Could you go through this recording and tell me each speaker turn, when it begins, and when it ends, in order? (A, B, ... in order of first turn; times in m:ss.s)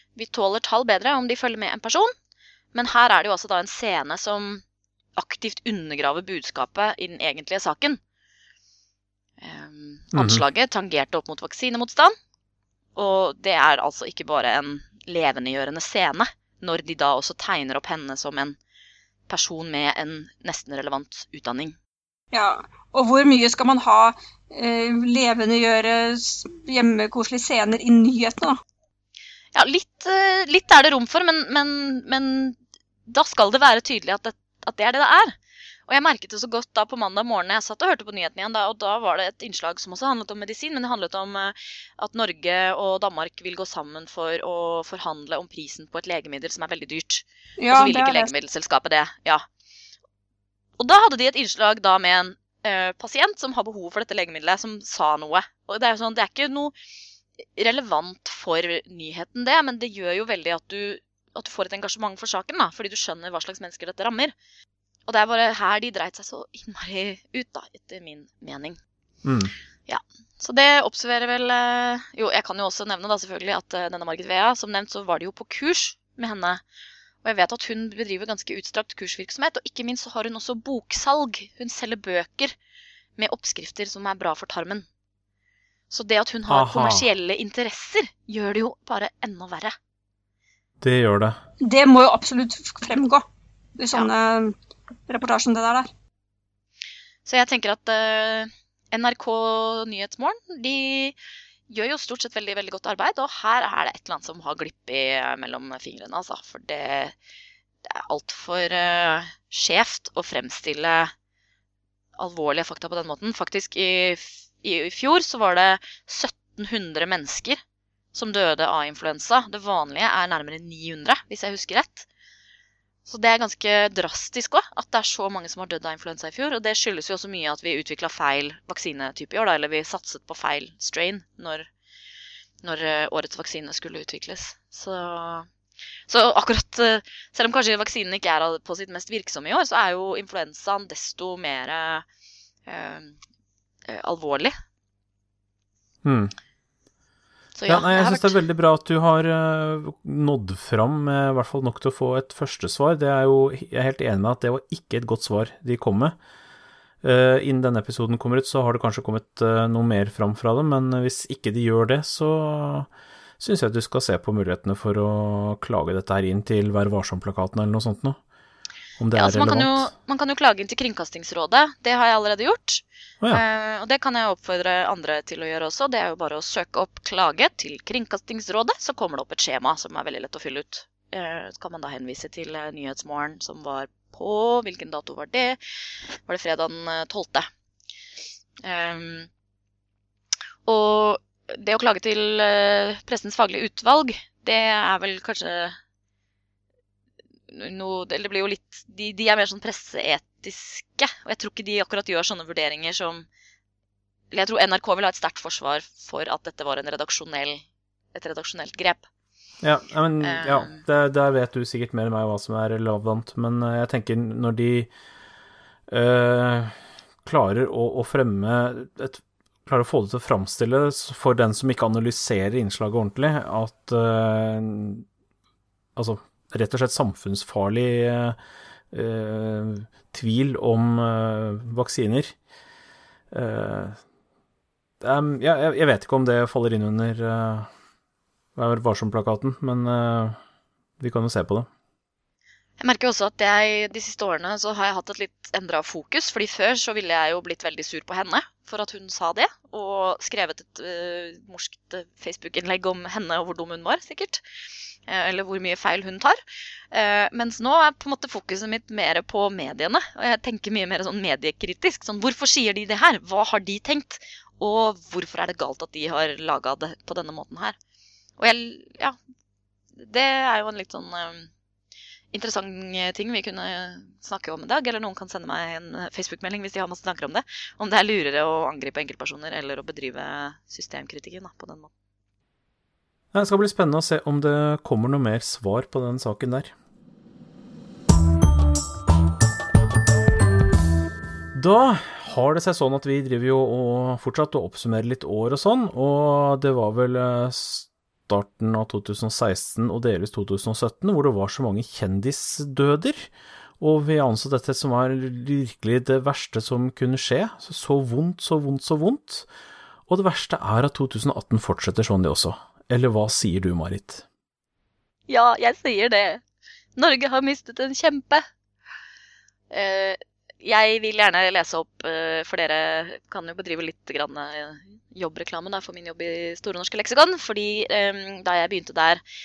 0:00.2-0:02.1 A
0:02.7-0:04.6 A
0:05.2-0:08.0 A
0:09.4-0:12.2 A
0:10.1-0:10.4 B
0:13.0-0:18.6 A
0:19.3-0:21.8 A
0:22.3-0:28.6 C
0:29.5-0:35.4 A
0:35.9-0:49.4 A
0:47.6-0:48.3 C
0:50.8-0:56.7 A
0:57.4-1:04.3 A
1:05.1-1:08.8 A
1:09.2-1:09.5 B
1:09.9-1:16.6 A
1:17.2-1:22.6 A
1:23.2-1:24.9 A
1:25.9-1:29.8 A
1:26.5-1:27.1 B
1:30.8-1:31.4 B
1:31.6-1:33.2 C
1:33.8-1:34.5 C
1:35.1-1:35.9 C
1:37.3-1:41.2 A
1:41.7-1:47.2 A
1:47.8-1:51.1 A
1:52.2-1:57.6 A
1:58.1-2:02.1 A
2:03.1-2:11.7 A
2:12.6-2:15.5 A
2:16.1-2:22.0 A
2:22.7-2:23.2 A
2:23.9-2:24.5 A
2:26.0-2:26.3 B
2:27.6-2:28.4 A
2:27.7-2:36.2 B
2:37.0-2:48.2 B
2:49.0-2:49.9 B
2:49.2-3:05.6 A
3:06.3-3:07.5 A
3:08.6-3:09.3 A
3:10.7-3:15.8 A
3:17.5-3:23.3 A
3:24.3-3:29.1 A
3:29.6-3:34.9 B
3:30.2-3:30.8 A
3:35.9-3:45.1 B
3:46.0-3:48.4 B
3:48.9-3:52.4 B
3:53.3-3:54.0 B
3:55.0-3:57.7 B
3:58.6-4:00.4 B
4:01.0-4:01.7 B
4:02.8-4:14.4 A
4:15.1-4:16.4 A
4:16.9-4:27.8 A
4:28.4-4:29.2 A
4:30.0-4:31.5 A
4:32.3-4:41.9 A
4:43.3-4:46.7 B
4:51.5-5:09.5 B
5:10.1-5:14.2 B
5:15.3-5:16.4 A
5:17.0-5:18.5 A
5:19.7-5:29.2 A